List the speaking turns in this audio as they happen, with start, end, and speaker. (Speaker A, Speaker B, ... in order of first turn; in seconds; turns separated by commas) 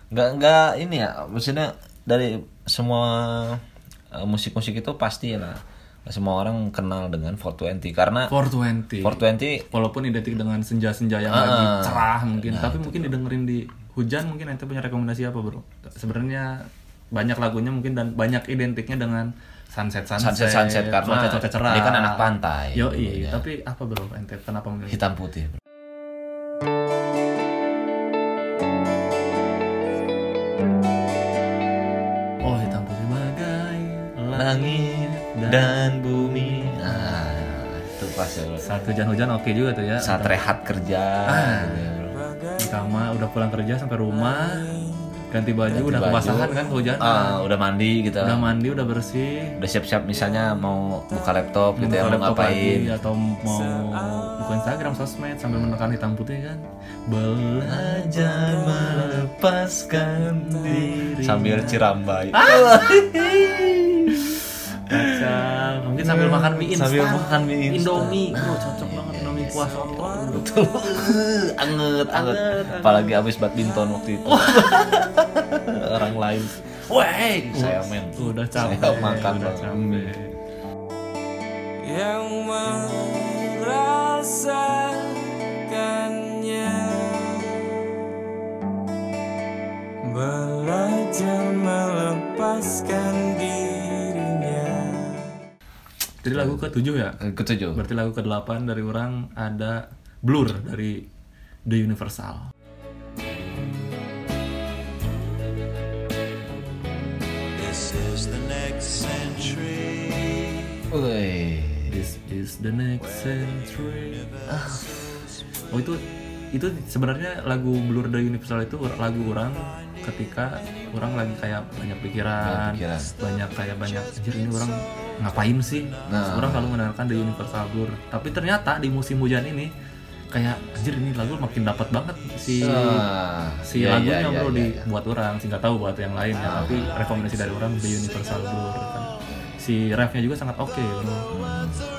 Speaker A: 0.1-8.3, Speaker B: 8.3-25.0, Speaker A: 9.0-9.7, Speaker A: 11.3-13.1, Speaker A: 20.2-23.4, Speaker A: 24.9-25.6, Speaker B: 32.4-37.2, Speaker A: 34.3-38.6, Speaker B: 38.6-40.4, Speaker A: 40.0-42.2, Speaker B: 41.2-41.9, Speaker C: 42.1-43.0, Speaker B: 42.6-44.6, Speaker C: 44.1-45.2, Speaker B: 45.3-47.4, Speaker A: 45.7-48.5, Speaker B: 48.2-49.6, Speaker A: 49.6-53.0, Speaker C: 50.1-50.6, Speaker B: 51.8-59.3, Speaker C: 53.5-54.4, Speaker A: 57.6-65.4, Speaker B: 60.2-62.9, Speaker B: 64.9-71.2, Speaker A: 66.0-80.1, Speaker B: 72.1-73.2, Speaker B: 74.3-74.7, Speaker B: 77.5-80.3, Speaker C: 81.8-87.8, Speaker C: 90.0-95.3, Speaker B: 96.2-97.2, Speaker A: 96.3-97.8, Speaker B: 97.7-101.0, Speaker B: 101.7-102.5, Speaker C: 107.6-110.6, Speaker A: 110.9-111.9, Speaker B: 111.9-114.4, Speaker A: 114.5-114.8, Speaker B: 115.7-129.7, Speaker A: 122.4-123.1, Speaker A: 126.0-126.8, Speaker B: 130.3-133.1, Speaker A: 132.6-134.9, Speaker B: 133.6-141.3, Speaker A: 136.4-136.9, Speaker A: 141.3-141.8